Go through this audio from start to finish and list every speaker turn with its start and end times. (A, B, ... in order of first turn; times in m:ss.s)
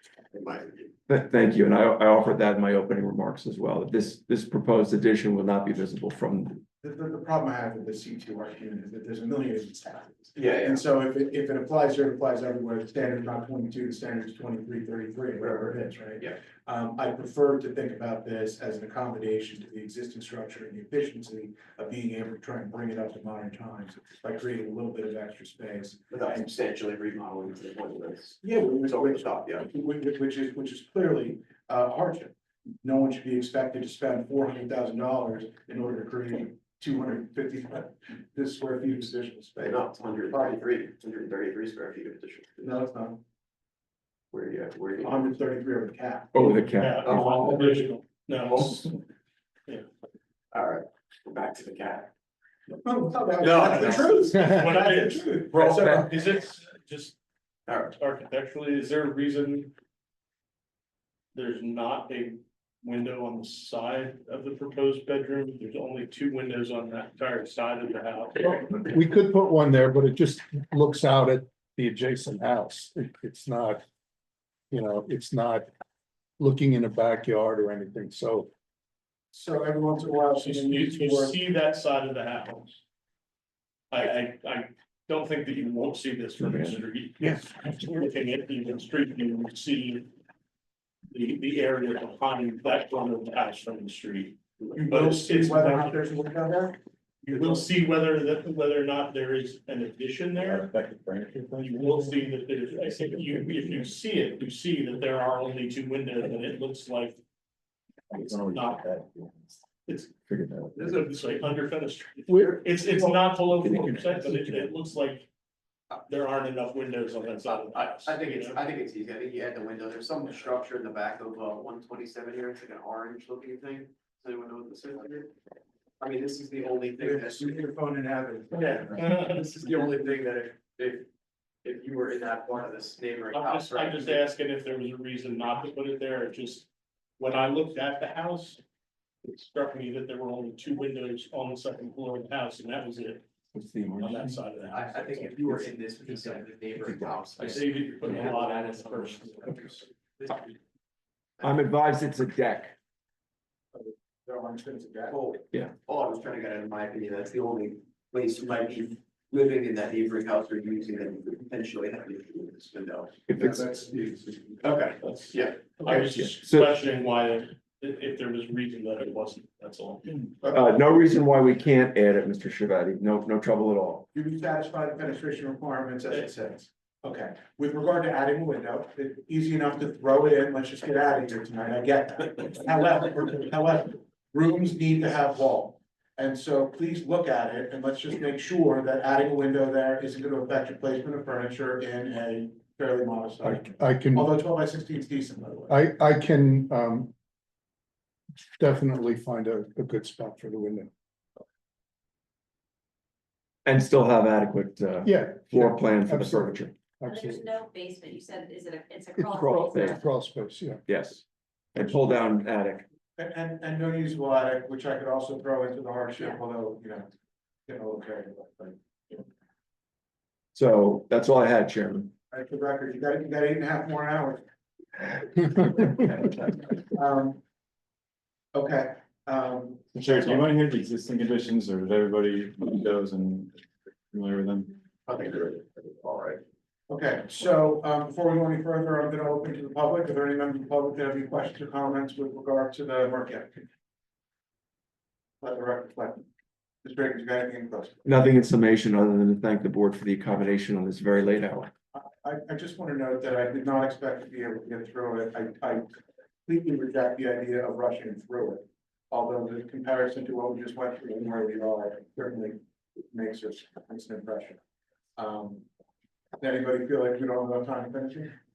0:00.3-0:00.9 A
0:01.1-0:06.6 B
0:06.8-0:26.5 C
0:10.4-0:10.8 A
0:26.1-0:29.6 A
0:28.4-0:40.6 C
0:39.6-0:42.7 A
0:42.6-0:43.2 C
0:44.3-0:45.4 A
0:45.0-0:46.4 C
0:46.3-0:47.5 B
0:46.8-0:48.9 D
0:47.1-0:47.9 A
0:50.5-0:52.1 A
0:52.8-0:56.2 C
0:53.4-0:54.6 A
0:53.6-0:57.2 D
0:55.6-0:56.1 B
0:57.7-0:57.9 A
0:57.9-0:59.7 D
1:01.3-1:08.8 D
1:08.6-1:13.8 E
1:14.7-1:15.7 E
1:16.4-1:18.5 E
1:19.3-1:21.4 C
1:20.4-1:22.8 D
1:23.9-1:30.1 D
1:26.4-1:26.8 B
1:27.2-1:27.5 E
1:31.1-1:36.1 D
1:34.8-1:37.7 C
1:37.3-1:40.7 D
1:40.4-1:42.0 F
1:41.6-1:47.2 D
1:48.1-1:49.6 F
1:48.4-1:48.9 D
1:49.9-1:50.1 D
1:50.3-1:51.0 B
1:50.8-1:55.3 D
1:53.7-1:54.4 B
1:56.0-1:58.6 D
1:57.4-2:05.3 A
2:06.0-2:07.6 A
2:07.0-2:09.1 C
2:08.5-2:09.4 D
2:09.2-2:11.1 A
2:11.6-2:14.2 A
2:13.3-2:18.6 D
2:19.2-2:23.2 D
2:23.6-2:24.4 B
2:24.0-2:25.4 D
2:24.7-2:29.5 A
2:26.8-2:27.2 B
2:27.4-2:29.9 D
2:30.2-2:30.6 A
2:31.4-2:31.7 A
2:31.4-2:32.8 B
2:33.7-2:35.2 C
2:35.1-2:43.7 A
2:43.3-2:43.6 B
2:43.4-2:44.2 C
2:44.6-2:45.8 A
2:45.0-2:50.2 D
2:46.0-2:46.7 B
2:50.4-2:54.1 B
2:54.1-3:15.8 C
3:13.4-3:14.3 E
3:15.7-3:17.1 E
3:18.6-3:20.9 E
3:23.6-3:26.8 B
3:25.0-3:27.4 E
3:27.0-3:30.0 G
3:29.2-3:30.8 E
3:29.4-3:30.0 B
3:30.9-3:32.9 B
3:33.2-3:37.1 C
3:37.7-3:39.3 C
3:40.6-3:42.1 B
3:42.3-3:44.4 C
3:45.9-3:46.4 B
3:46.7-3:47.4 C
3:48.5-3:50.4 C
3:50.0-3:54.8 F
3:55.1-3:56.4 A
3:56.9-4:03.7 C
4:05.4-4:06.3 C
4:06.8-4:08.0 C
4:08.0-4:11.7 B
4:11.9-4:22.6 C
4:23.1-4:24.6 C
4:25.2-4:25.6 C
4:26.4-4:28.3 C